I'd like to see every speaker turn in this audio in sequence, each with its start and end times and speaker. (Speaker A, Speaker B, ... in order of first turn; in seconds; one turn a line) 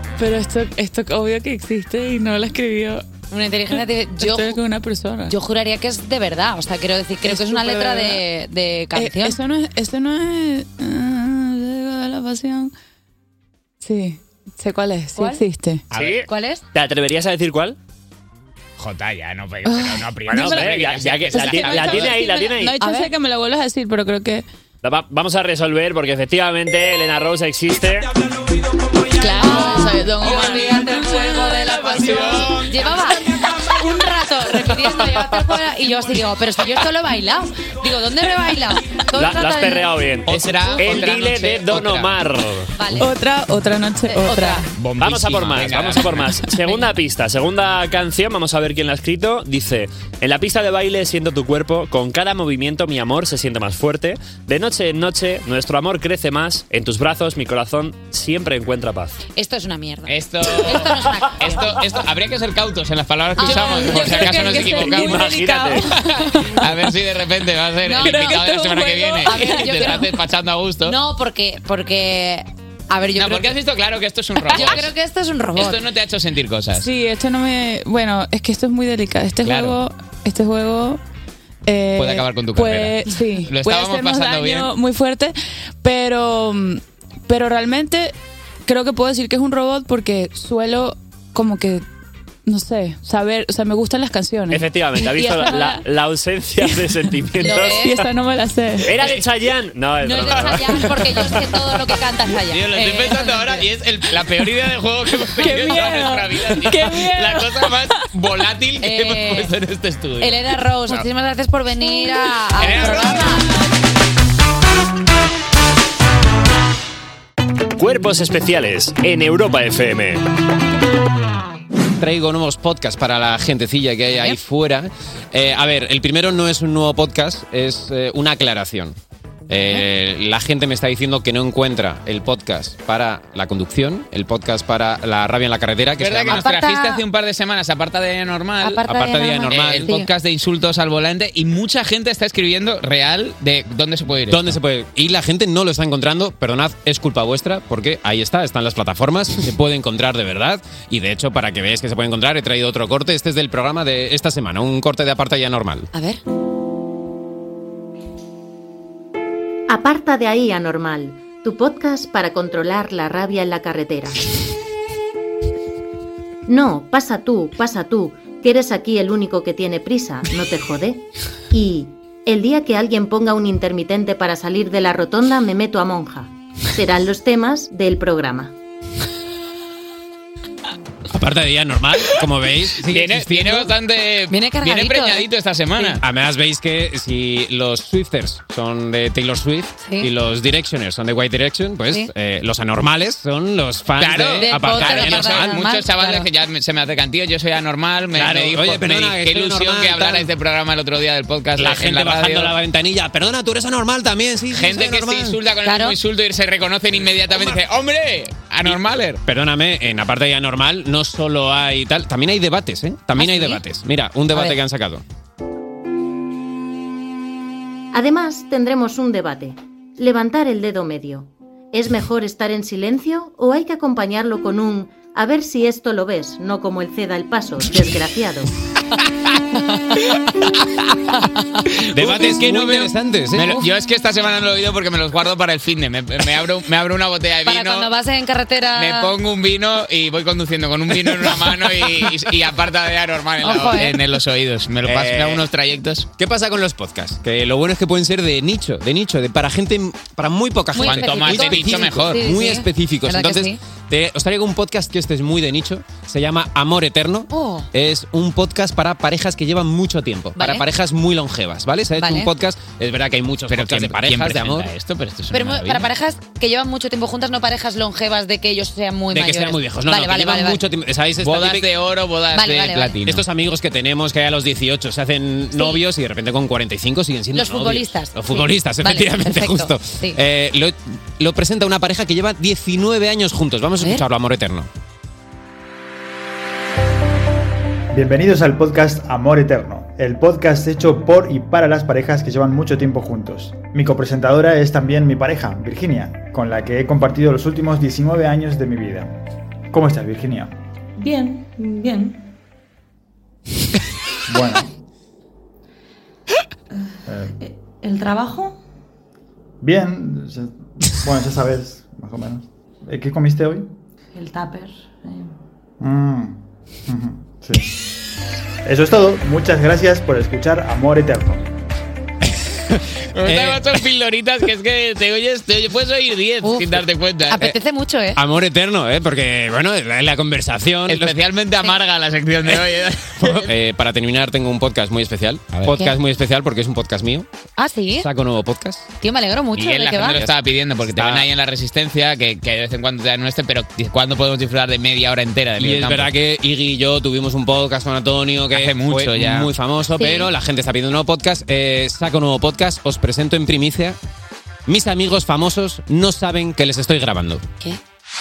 Speaker A: 0.2-3.0
Speaker B: 3.3-4.6
Speaker A: 3.7-5.3
Speaker B: 5.3-9.4
Speaker A: 7.2-8.2
Speaker A: 8.9-12.7
Speaker A: 13.8-15.8
Speaker B: 15.2-15.4
Speaker C: 15.9-17.8
Speaker B: 16.3-16.6
Speaker D: 18.8-22.2
Speaker A: 19.6-20.8
Speaker C: 20.3-22.8
Speaker A: 21.3-24.4
Speaker B: 22.8-23.1
Speaker C: 24.8-28.1
Speaker A: 29.2-32.7
Speaker B: 29.2-39.9
Speaker D: 32.0-32.7
Speaker C: 39.1-42.7
Speaker D: 40.3-42.2
Speaker B: 40.6-41.0
Speaker B: 42.8-43.1
Speaker A: 43.0-44.7
Speaker B: 44.1-44.6
Speaker D: 44.8-46.4
Speaker C: 45.0-59.2
Speaker B: 59.4-61.8
Speaker D: 60.1-65.4
Speaker B: 63.4-65.2
Speaker A: 63.4-66.7
Speaker C: 64.3-65.9
Speaker D: 66.3-71.0
Speaker B: 67.8-68.5
Speaker A: 67.9-70.1
Speaker B: 69.2-70.1
Speaker B: 70.8-73.6
Speaker D: 73.2-74.9
Speaker B: 74.5-75.8
Speaker D: 75.6-76.9
Speaker A: 76.7-81.0
Speaker D: 79.4-79.8
Speaker A: 81.7-88.1
Speaker D: 82.0-84.7
Speaker A: 88.7-91.8
Speaker A: 92.5-95.8
Speaker C: 94.5-98.1
Speaker A: 96.6-99.1
Speaker B: 97.4-98.0
Speaker C: 98.8-101.0
Speaker D: 99.0-99.2
Speaker B: 100.0-103.7
Speaker D: 102.5-111.0
Speaker A: 105.3-107.9
Speaker B: 108.8-109.5
Speaker B: 110.2-113.5
Speaker D: 112.6-113.4
Speaker C: 117.8-120.2
Speaker E: 122.0-129.0
Speaker E: 129.5-136.4
Speaker D: 136.0-138.8
Speaker B: 136.3-137.0
Speaker B: 138.6-140.1
Speaker E: 138.8-139.9
Speaker D: 139.5-144.6
Speaker E: 144.3-155.9
Speaker B: 155.9-156.2
Speaker F: 159.7-164.2
Speaker F: 166.5-178.5
Speaker E: 181.1-183.7
Speaker D: 182.9-186.0
Speaker B: 184.3-185.3
Speaker E: 186.0-195.6
Speaker B: 189.8-190.1
Speaker D: 194.0-202.6
Speaker B: 194.4-196.3
Speaker E: 198.1-200.3
Speaker E: 201.6-205.4
Speaker D: 204.5-209.2
Speaker B: 205.6-206.0
Speaker E: 209.3-215.0
Speaker B: 213.2-213.6
Speaker F: 217.9-228.5
Speaker D: 231.7-237.9
Speaker E: 231.9-233.6
Speaker B: 237.5-239.1
Speaker D: 238.8-246.1
Speaker B: 243.4-244.0
Speaker E: 244.8-245.4
Speaker E: 246.2-264.7
Speaker B: 250.7-253.6
Speaker D: 250.8-252.3
Speaker B: 257.3-257.7
Speaker B: 260.4-260.6
Speaker B: 262.0-262.3
Speaker D: 263.5-265.9
Speaker B: 265.3-270.6
Speaker E: 269.1-271.7
Speaker D: 271.2-273.2
Speaker B: 272.3-273.0
Speaker E: 273.1-284.7
Speaker B: 275.5-275.8
Speaker B: 277.3-280.2
Speaker G: 287.9-299.1
Speaker G: 299.7-300.5
Speaker H: 301.0-302.2
Speaker G: 304.3-304.7
Speaker G: 307.1-307.3
Speaker H: 307.4-308.6
Speaker G: 309.6-313.7
Speaker H: 314.1-315.3
Speaker G: 315.8-317.7
Speaker G: 318.6-321.4
Speaker D: 323.1-327.6
Speaker E: 323.2-323.8
Speaker B: 326.4-328.2
Speaker E: 328.1-331.1
Speaker D: 330.9-333.5
Speaker E: 333.2-337.3
Speaker B: 335.7-335.9
Speaker B: 337.6-338.1
Speaker E: 337.9-338.9
Speaker B: 339.0-340.2
Speaker D: 339.5-346.1
Speaker E: 340.0-341.3
Speaker E: 345.6-354.0
Speaker D: 348.5-349.5
Speaker B: 350.0-350.3
Speaker E: 354.7-357.4